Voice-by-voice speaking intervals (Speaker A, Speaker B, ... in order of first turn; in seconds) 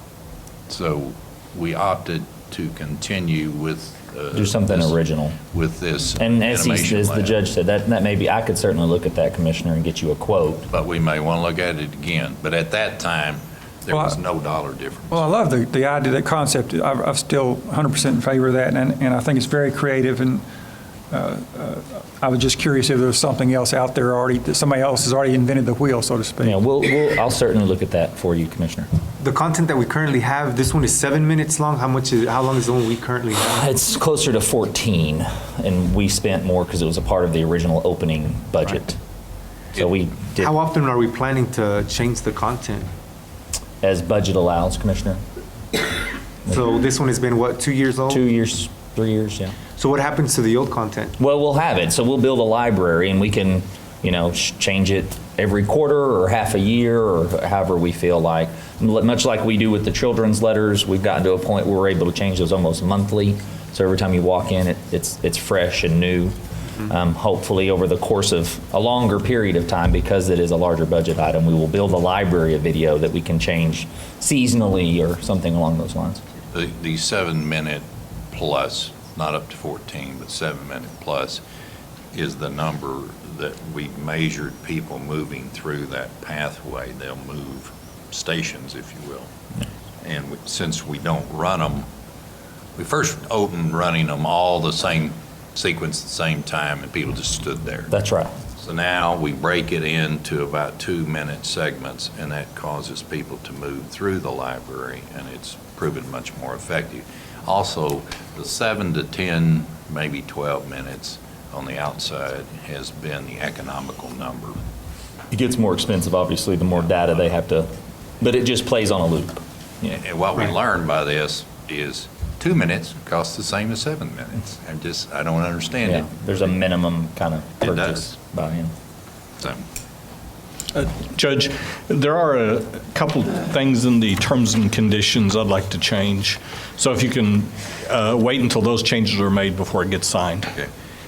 Speaker A: 0.7-5.0, 5.5-7.4, 10.7-15.3, 76.5-81.4, 82.1-89.3, 90.0-91.9, 92.8-97.9, 98.6-114.6, 119.9-126.5, 127.6-128.2
Speaker B: 4.3-5.4, 6.2-10.7, 26.4-28.9, 33.5-39.0, 39.8-40.6, 43.8-45.2, 48.1-49.6, 51.2-76.2, 97.9-98.3, 115.3-120.0, 125.8-128.7
Speaker C: 13.9-14.2, 15.1-20.4, 21.1-26.6
Speaker D: 29.2-33.6, 40.4-42.9, 46.5-48.2, 49.8-51.1
Speaker E: 130.7-140.5